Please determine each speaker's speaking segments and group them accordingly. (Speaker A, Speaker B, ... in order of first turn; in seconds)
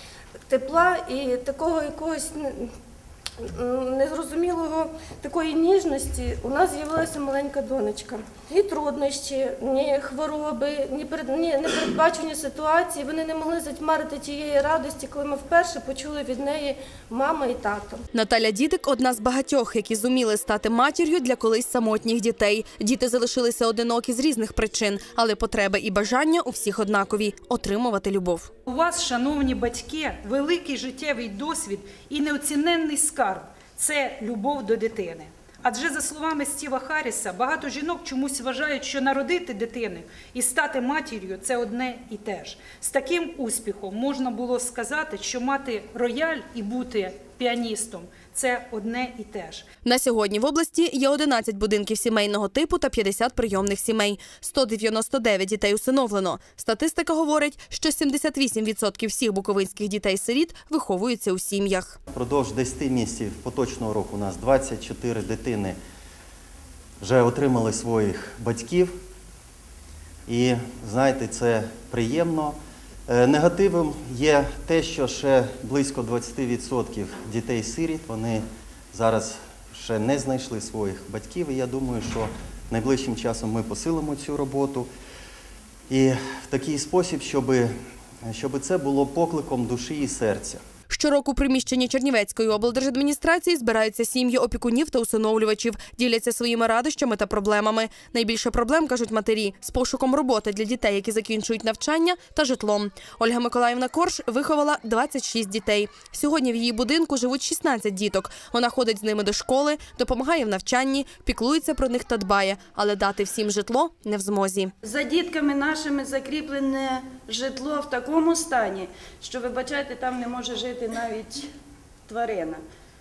Speaker A: 0.5-2.7, 3.4-18.0
Speaker B: 18.1-28.5, 49.9-62.0, 90.9-114.7
Speaker C: 28.7-49.7
Speaker D: 62.1-65.8, 67.0-68.9, 70.3-72.6, 73.1-84.9, 85.9-87.7, 88.2-90.6
Speaker E: 114.8-121.5, 122.1-122.6